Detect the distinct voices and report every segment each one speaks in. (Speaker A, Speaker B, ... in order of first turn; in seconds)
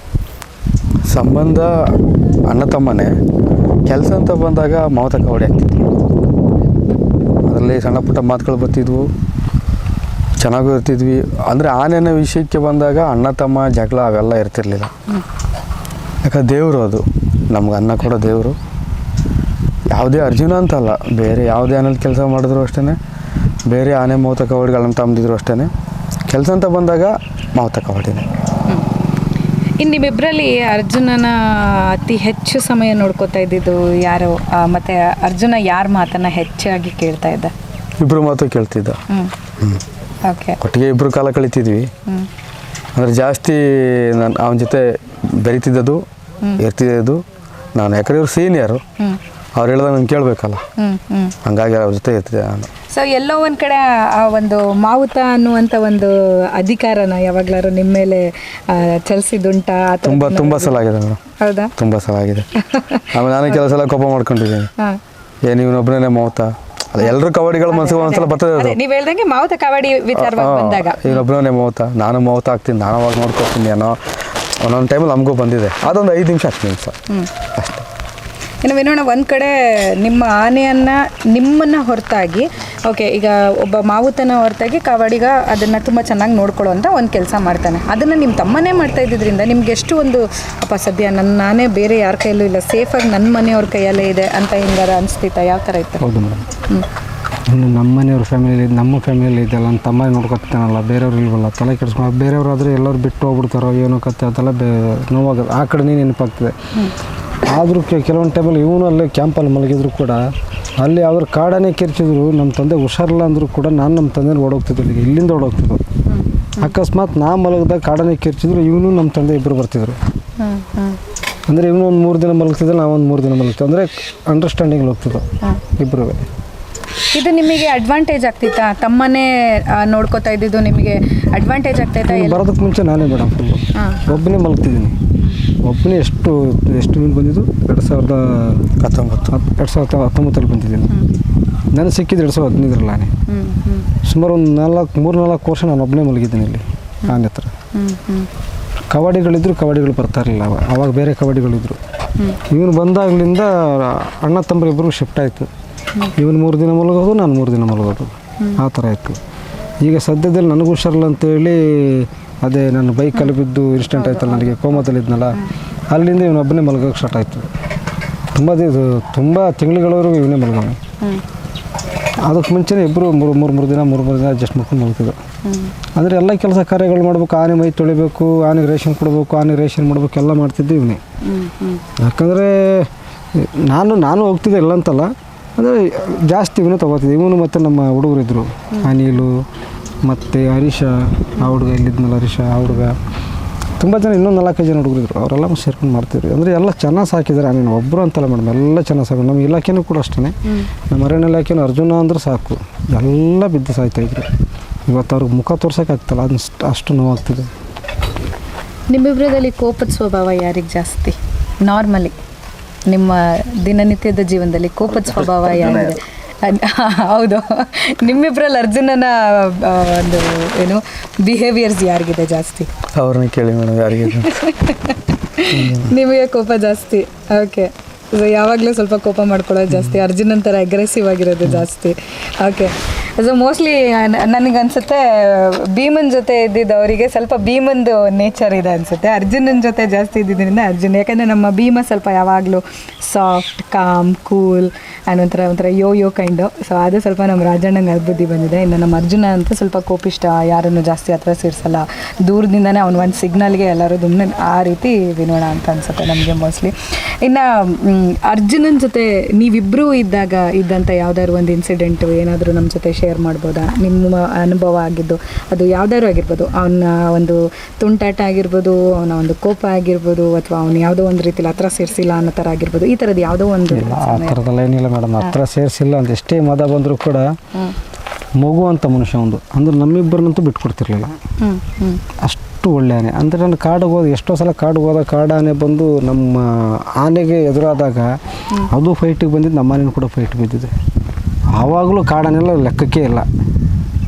Speaker A: 1.1-1.7, 2.5-3.2, 3.9-5.9, 7.5-9.1, 10.4-14.9, 16.2-18.6, 19.9-23.0, 23.7-25.7, 26.3-28.3, 38.0-39.0, 40.6-41.9, 43.0-46.0, 46.6-47.2, 47.8-48.8, 49.6-50.6, 51.4-52.7, 60.0-61.2, 61.8-62.5, 63.1-64.7, 65.5-68.8, 70.1-76.9, 77.5-77.9, 138.8-139.3, 222.9-224.4, 225.5-225.9
Speaker B: 29.8-37.5, 40.2-40.6, 50.8-51.4, 52.9-60.8, 61.4-61.7, 62.6-63.5, 67.7-71.2, 78.6-96.1, 116.1-116.8, 120.4-121.0, 127.1-132.5, 133.8-134.2, 143.3-143.9, 147.7-148.3, 163.9-165.5, 175.4-175.7, 181.2-181.8, 208.9-212.1, 212.9-222.7, 224.1-274.4, 281.4-282.0
Speaker C: 96.0-96.5, 97.5-106.5, 107.4-110.2, 110.8-115.8, 116.6-120.0, 121.5-125.2, 125.8-126.2, 132.1-135.0, 135.6-138.7, 139.3-140.9, 141.7-143.1, 144.0-147.5, 148.9-151.8, 152.5-155.5, 156.2-159.2, 159.8-165.4, 165.9-167.5, 168.3-170.8, 172.2-175.2, 176.0-181.0, 182.0-189.4, 190.1-193.0, 193.8-200.4, 200.9-204.3, 204.9-207.5, 273.7-277.4, 278.4-281.1, 282.2-288.1, 288.7-290.7, 291.6-293.3